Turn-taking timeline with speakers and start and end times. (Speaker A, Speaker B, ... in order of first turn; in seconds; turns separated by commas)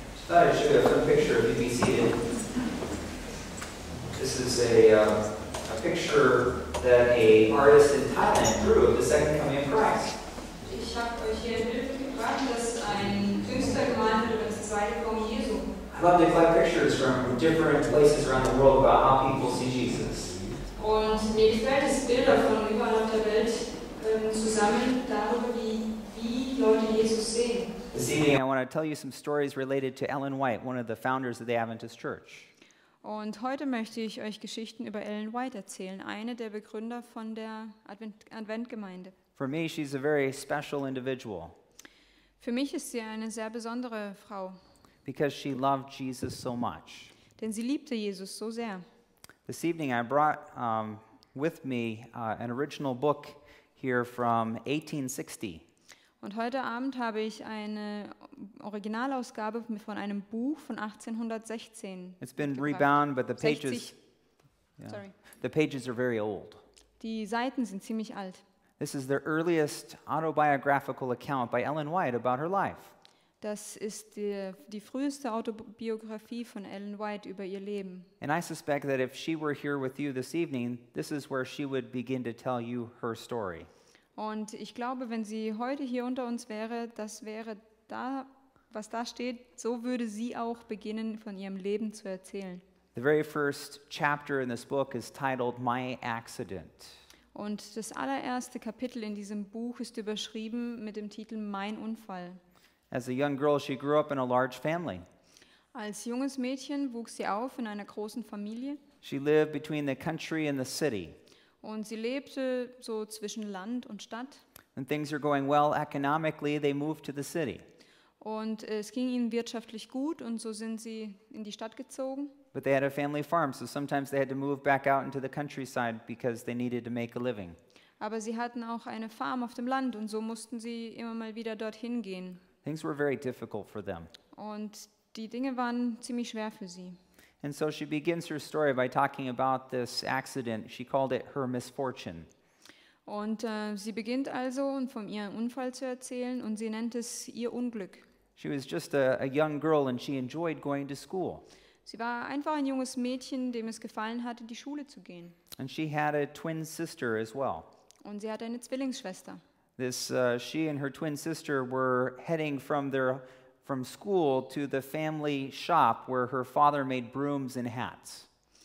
Speaker A: 0.3-2.2, Speaker A: 4.2-10.2, Speaker B: 10.7-15.8, Speaker A: 15.9-20.4, Speaker B: 20.8-27.8, Speaker A: 27.9-32.5, Speaker B: 33.0-39.2, Speaker A: 39.4-41.6, Speaker B: 42.4-44.6, Speaker A: 45.0-47.1, Speaker B: 47.4-48.9, Speaker A: 49.5-55.7, Speaker B: 56.2-64.0, Speaker A: 62.2-63.9, Speaker A: 64.8-66.6, Speaker B: 64.8-65.2, Speaker B: 67.0-68.4, Speaker A: 68.8-72.9, Speaker B: 73.4-78.1, Speaker A: 78.2-83.7, Speaker B: 84.2-92.6, Speaker A: 93.0-97.0, Speaker B: 97.3-102.4, Speaker A: 102.9-105.0, Speaker B: 105.7-108.8, Speaker A: 109.0-111.2, Speaker B: 111.6-114.4, Speaker A: 114.8-117.7, Speaker B: 118.2-122.4, Speaker A: 122.5-127.6, Speaker B: 128.0-132.4, Speaker A: 132.6-134.1, Speaker B: 134.3-137.0, Speaker A: 137.4-142.3, Speaker B: 143.1-148.1, Speaker A: 148.4-151.4, Speaker B: 151.8-155.4, Speaker A: 155.6-157.7, Speaker B: 158.0-159.4, Speaker A: 159.8-168.3